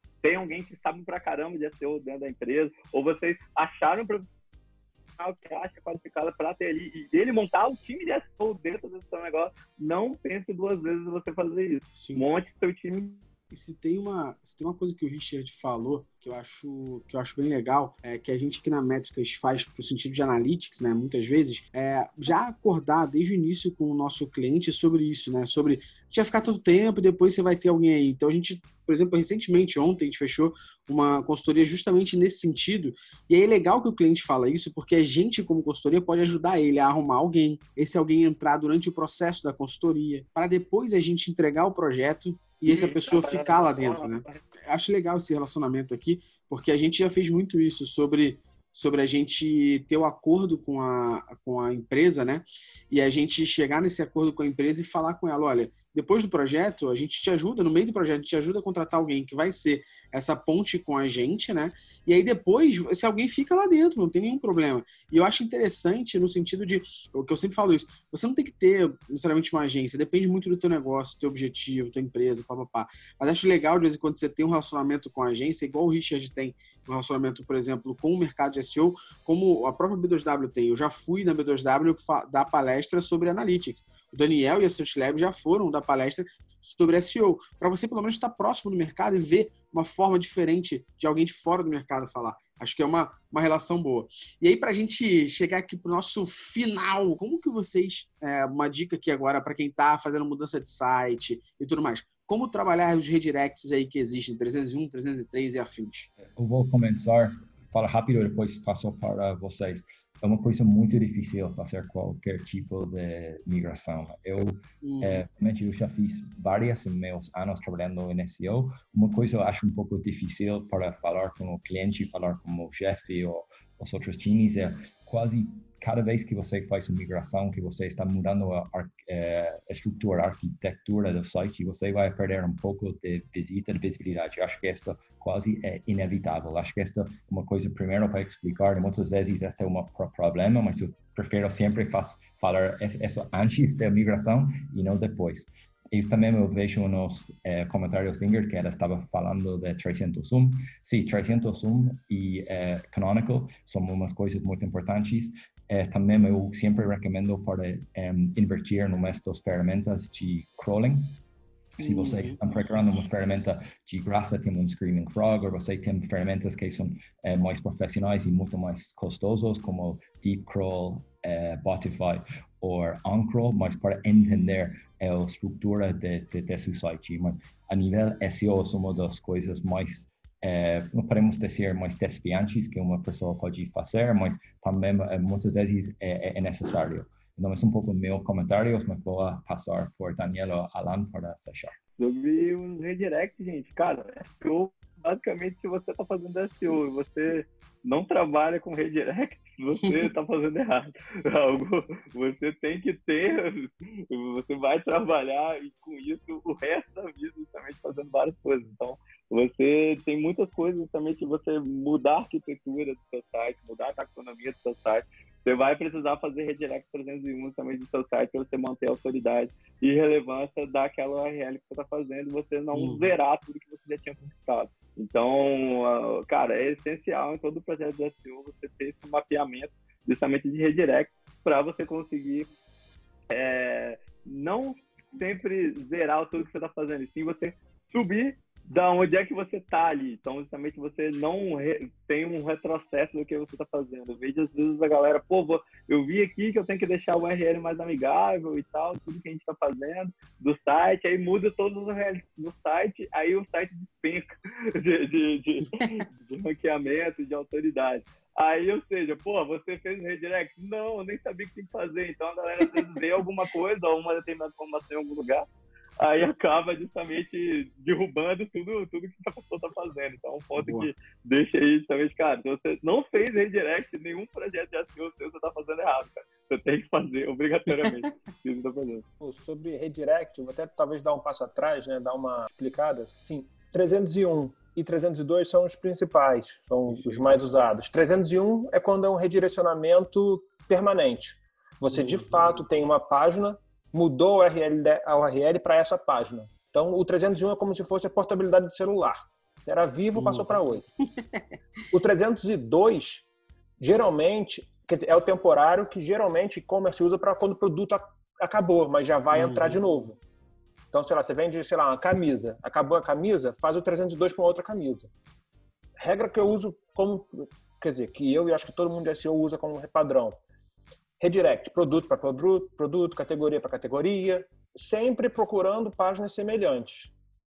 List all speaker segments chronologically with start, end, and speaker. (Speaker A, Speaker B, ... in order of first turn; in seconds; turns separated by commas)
Speaker A: 0.2-4.2, Speaker A: 5.2-13.2, Speaker B: 11.9-12.2, Speaker B: 13.5-106.1, Speaker A: 42.7-44.4, Speaker C: 106.2-161.2, Speaker B: 114.8-115.2, Speaker C: 161.8-191.8, Speaker B: 161.8-162.4, Speaker A: 192.0-232.5, Speaker B: 222.7-223.1, Speaker A: 233.3-265.4, Speaker B: 255.7-255.9, Speaker A: 266.0-279.0, Speaker B: 270.6-270.9, Speaker B: 277.7-278.1, Speaker D: 279.2-300.8, Speaker B: 286.9-287.2, Speaker B: 291.9-292.6, Speaker B: 300.1-301.5, Speaker D: 301.9-303.2, Speaker D: 303.8-310.2, Speaker B: 309.3-309.8, Speaker D: 310.9-315.1, Speaker D: 316.0-320.4, Speaker D: 321.2-327.1